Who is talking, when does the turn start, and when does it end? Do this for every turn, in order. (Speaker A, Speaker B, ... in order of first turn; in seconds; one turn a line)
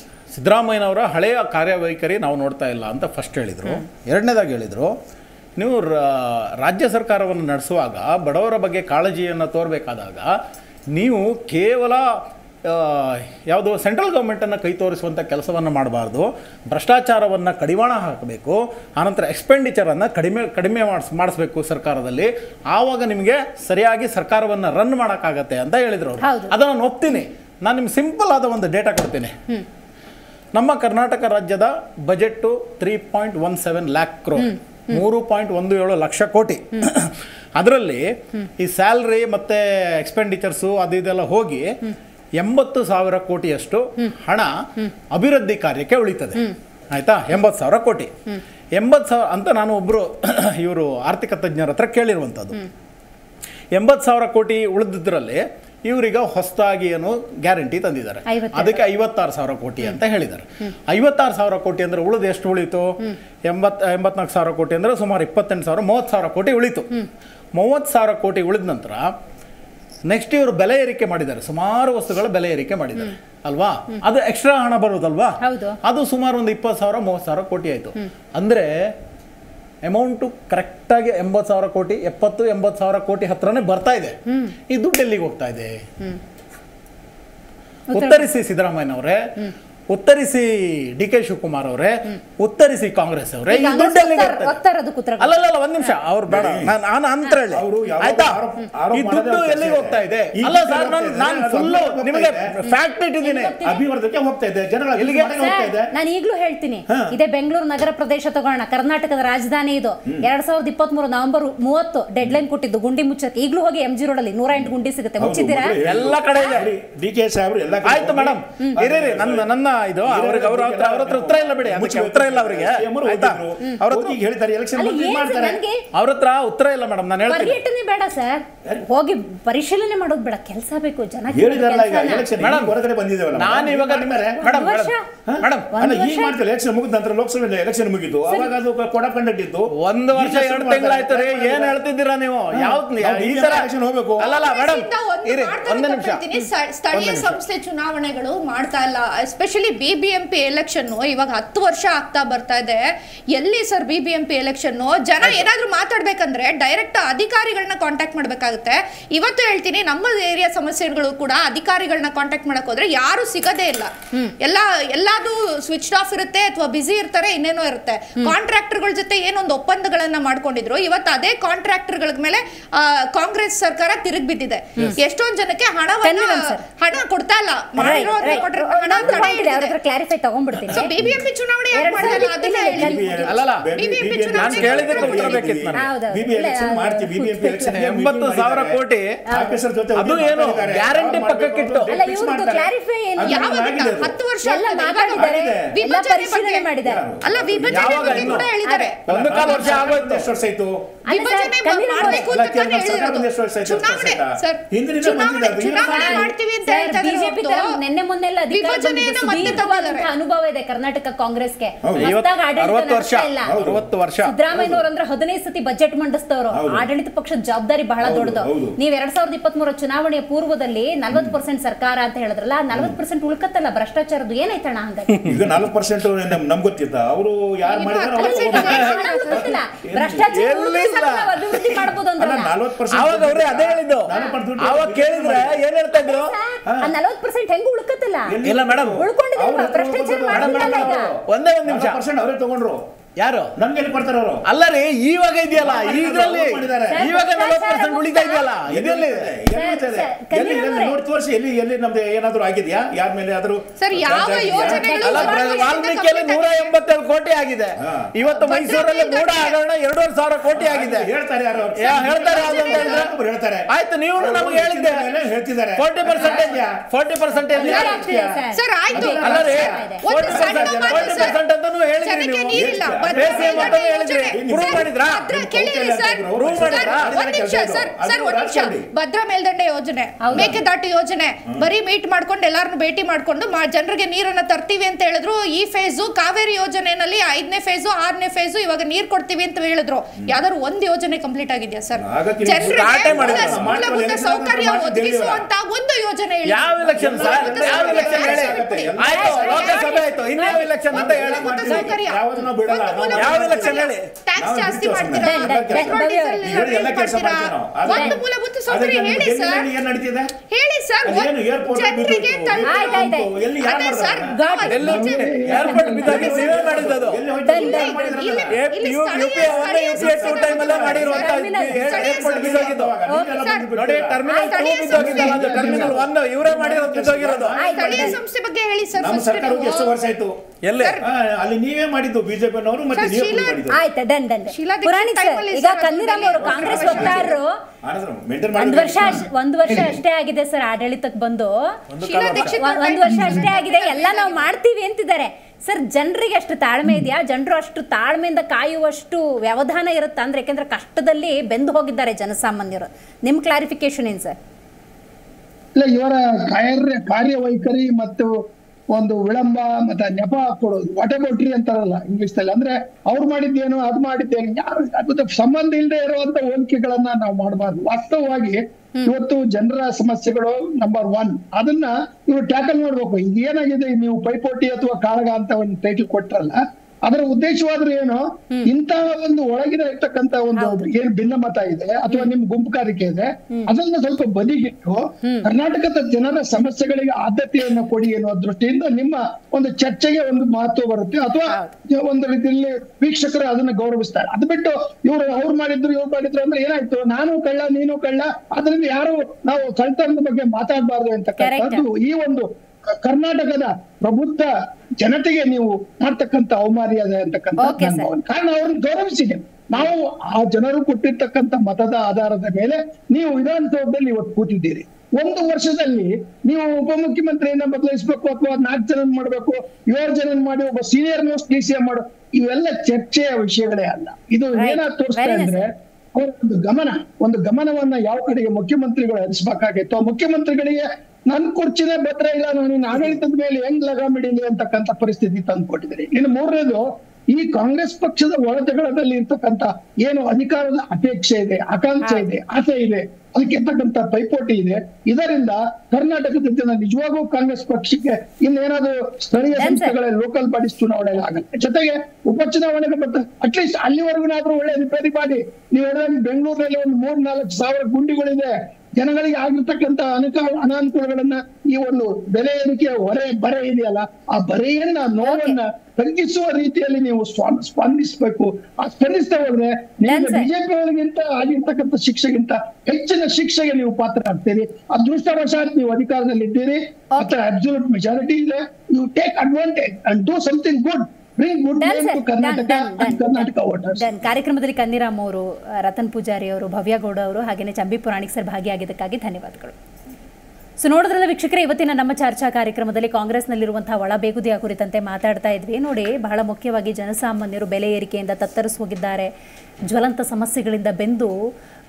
Speaker A: 0.3-4.9
Speaker A: 5.6-10.3
Speaker A: 10.9-12.1
Speaker A: 12.7-29.4
Speaker B: 26.2-26.5
Speaker A: 30.5-38.1
Speaker B: 34.4-35.0
Speaker A: 38.6-41.7
Speaker A: 42.4-44.6
Speaker A: 45.1-46.4
Speaker A: 46.9-48.1
Speaker A: 48.8-52.6
Speaker A: 53.7-62.9
Speaker B: 58.3-58.9
Speaker A: 63.5-66.9
Speaker A: 67.5-69.1
Speaker A: 70.1-78.7
Speaker B: 75.4-75.8
Speaker A: 79.9-84.2
Speaker A: 84.7-85.8
Speaker B: 87.9-88.3
Speaker A: 87.9-89.2
Speaker A: 89.9-94.6
Speaker B: 93.5-96.0
Speaker A: 95.2-98.4
Speaker C: 96.3-96.8
Speaker C: 97.5-102.5
Speaker A: 98.9-103.5
Speaker B: 102.7-103.8
Speaker C: 103.6-105.9
Speaker A: 105.0-105.3
Speaker B: 105.4-115.8
Speaker C: 114.5-125.6
Speaker A: 115.8-116.7
Speaker B: 116.3-116.6
Speaker A: 117.8-124.2
Speaker B: 124.8-125.8
Speaker A: 126.0-127.6
Speaker B: 127.3-132.3
Speaker C: 131.3-134.5
Speaker A: 132.4-132.7
Speaker A: 133.3-135.7
Speaker B: 134.4-135.0
Speaker C: 135.3-141.8
Speaker B: 135.7-136.4
Speaker A: 139.8-143.7
Speaker C: 142.5-144.4
Speaker A: 144.2-146.2
Speaker D: 144.3-152.8
Speaker A: 146.9-147.4
Speaker D: 153.3-179.7
Speaker B: 176.0-176.7
Speaker B: 177.8-180.9
Speaker D: 180.7-185.6
Speaker B: 181.7-183.3
Speaker C: 182.7-188.8
Speaker A: 183.3-183.7
Speaker A: 184.3-185.9
Speaker B: 185.7-187.8
Speaker A: 187.7-189.1
Speaker C: 189.3-194.2
Speaker A: 190.0-191.9
Speaker B: 191.9-193.6
Speaker D: 193.2-196.7
Speaker B: 194.4-197.0
Speaker C: 195.2-195.7
Speaker C: 196.8-198.5
Speaker D: 197.2-199.9
Speaker A: 197.7-198.5
Speaker B: 198.6-198.9
Speaker A: 199.1-200.3
Speaker C: 199.1-200.9
Speaker B: 201.1-202.3
Speaker D: 201.1-207.7
Speaker C: 202.0-206.4
Speaker B: 205.9-213.5
Speaker D: 208.5-210.1
Speaker C: 211.8-212.1
Speaker A: 212.0-214.4
Speaker C: 213.4-213.9
Speaker B: 214.2-225.3
Speaker C: 214.6-214.8
Speaker C: 216.5-216.9
Speaker C: 218.0-218.8
Speaker C: 221.1-221.4
Speaker C: 225.2-230.4
Speaker D: 227.7-229.6
Speaker B: 228.2-232.5
Speaker A: 228.5-228.9
Speaker A: 230.3-231.9
Speaker C: 232.2-235.6
Speaker A: 232.9-236.3
Speaker B: 235.9-238.4
Speaker C: 236.7-236.9
Speaker C: 238.3-242.8
Speaker A: 238.4-239.0
Speaker B: 238.9-241.1
Speaker A: 240.3-242.0
Speaker A: 243.2-243.5
Speaker C: 243.6-244.4
Speaker A: 244.5-249.3
Speaker C: 245.6-247.1
Speaker B: 246.9-248.5
Speaker C: 248.7-255.4
Speaker B: 249.6-251.0
Speaker D: 253.8-256.8
Speaker B: 254.6-255.7
Speaker A: 255.0-261.1
Speaker C: 257.8-258.1
Speaker D: 258.3-259.6
Speaker C: 260.5-266.8
Speaker A: 261.8-263.1
Speaker D: 262.1-263.0
Speaker A: 263.7-265.2
Speaker A: 265.8-268.0
Speaker C: 267.4-268.4
Speaker B: 267.5-270.0
Speaker D: 268.5-271.4
Speaker C: 268.9-271.4
Speaker A: 269.2-275.3
Speaker D: 272.0-309.7
Speaker C: 272.5-278.9
Speaker A: 276.3-277.1
Speaker B: 280.2-280.6
Speaker C: 280.3-280.6
Speaker C: 292.0-295.5
Speaker A: 292.6-293.8
Speaker A: 296.4-301.9
Speaker C: 296.9-300.0
Speaker B: 299.1-299.7
Speaker C: 300.8-310.3
Speaker A: 303.1-304.1
Speaker B: 305.2-306.4
Speaker B: 307.9-308.1
Speaker D: 310.5-313.1
Speaker C: 311.0-318.6
Speaker B: 312.7-313.3
Speaker D: 313.6-315.4
Speaker B: 314.3-314.8
Speaker A: 314.7-317.3
Speaker E: 314.9-316.2
Speaker B: 315.6-316.5
Speaker D: 316.1-316.8
Speaker B: 317.4-318.4
Speaker D: 317.5-323.7
Speaker A: 318.5-323.0
Speaker C: 320.0-324.3
Speaker B: 321.2-322.1
Speaker B: 323.1-323.3
Speaker A: 323.7-327.6
Speaker D: 324.3-325.5
Speaker B: 324.3-324.6
Speaker C: 324.9-328.2
Speaker E: 325.1-326.0
Speaker B: 327.6-328.1
Speaker D: 327.6-329.9
Speaker C: 329.0-330.4
Speaker A: 330.6-331.0
Speaker D: 330.8-331.0
Speaker C: 331.0-333.8
Speaker D: 332.9-333.7
Speaker B: 333.7-337.5
Speaker D: 334.5-337.4
Speaker C: 336.4-339.3
Speaker B: 338.6-341.6
Speaker A: 341.9-342.6
Speaker D: 342.0-344.5
Speaker B: 342.3-354.4
Speaker E: 355.8-358.3
Speaker E: 358.9-402.5
Speaker B: 380.6-380.9
Speaker B: 385.2-385.5
Speaker B: 401.4-401.8
Speaker E: 403.0-484.1
Speaker B: 407.6-408.1
Speaker B: 424.6-425.6
Speaker B: 449.6-449.9
Speaker B: 465.3-465.6
Speaker B: 470.1-470.5
Speaker B: 481.8-489.8
Speaker B: 490.8-499.3
Speaker B: 499.9-501.3